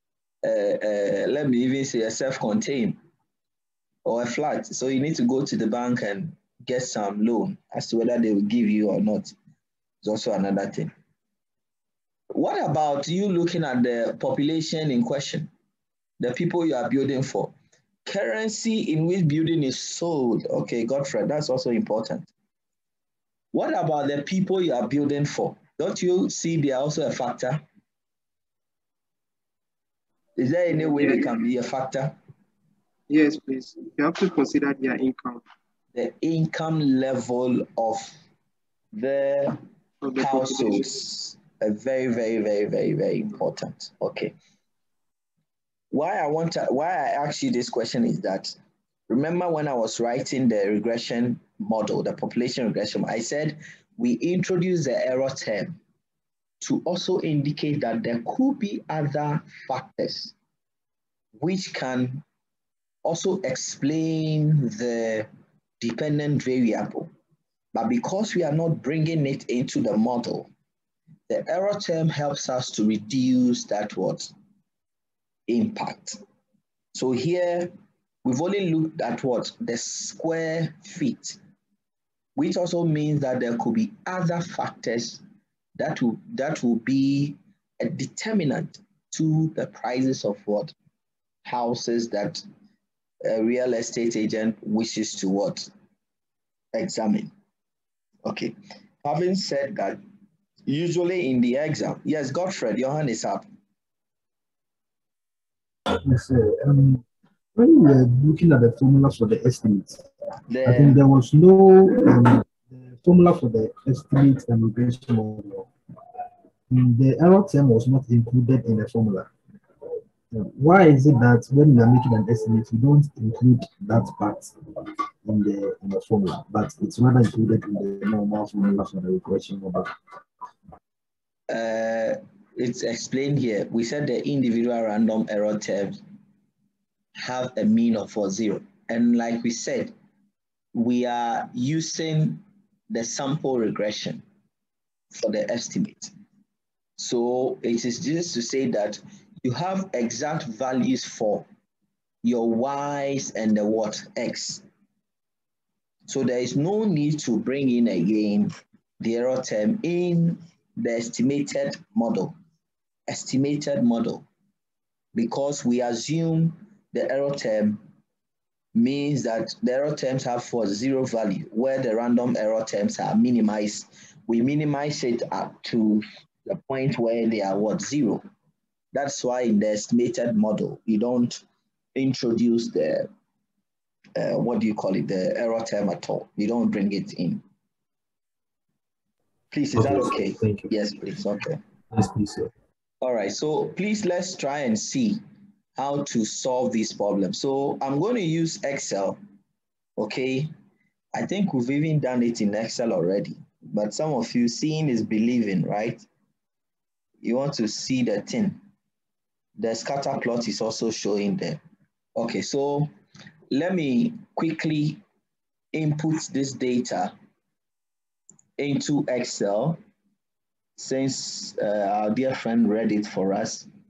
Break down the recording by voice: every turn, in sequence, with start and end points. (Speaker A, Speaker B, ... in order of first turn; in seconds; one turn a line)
Speaker A: 0.4-3.0
Speaker A: 4.0-9.3
Speaker A: 10.0-10.9
Speaker A: 12.3-15.5
Speaker A: 16.2-17.5
Speaker A: 18.0-22.3
Speaker A: 23.5-27.6
Speaker A: 30.4-32.2
Speaker B: 30.8-31.2
Speaker B: 33.1-35.4
Speaker A: 35.9-38.1
Speaker A: 38.9-39.6
Speaker B: 40.0-40.9
Speaker A: 40.2-44.3
Speaker A: 45.9-48.5
Speaker A: 49.1-55.8
Speaker A: 56.6-60.3
Speaker A: 61.4-62.2
Speaker A: 63.0-65.3
Speaker A: 65.8-67.1
Speaker A: 67.7-70.5
Speaker A: 71.3-74.3
Speaker A: 75.5-76.2
Speaker A: 76.9-77.7
Speaker A: 78.2-81.4
Speaker A: 82.3-85.2
Speaker A: 85.8-90.7
Speaker A: 91.4-92.4
Speaker A: 93.2-95.7
Speaker A: 96.7-97.3
Speaker A: 98.2-98.5
Speaker A: 99.0-100.0
Speaker A: 100.7-103.5
Speaker C: 105.9-107.0
Speaker C: 107.5-110.0
Speaker A: 110.5-111.0
Speaker C: 110.6-115.7
Speaker C: 116.7-119.3
Speaker C: 120.3-124.6
Speaker C: 125.2-129.9
Speaker A: 131.5-136.0
Speaker A: 137.2-139.9
Speaker A: 140.7-144.2
Speaker A: 145.1-146.1
Speaker A: 147.0-151.4
Speaker A: 152.2-154.6
Speaker A: 156.1-162.3
Speaker A: 163.1-164.2
Speaker A: 165.1-167.8
Speaker A: 168.7-178.2
Speaker A: 178.9-181.4
Speaker A: 181.9-183.1
Speaker A: 184.1-187.4
Speaker A: 189.5-191.6
Speaker C: 189.7-190.7
Speaker C: 191.9-192.5
Speaker A: 193.0-195.2
Speaker A: 195.8-199.2
Speaker A: 200.0-200.5
Speaker A: 201.1-206.1
Speaker A: 207.2-208.6
Speaker A: 209.6-211.6
Speaker A: 212.2-212.9
Speaker A: 213.5-215.0
Speaker A: 215.7-217.1
Speaker A: 218.6-219.8
Speaker A: 220.8-223.7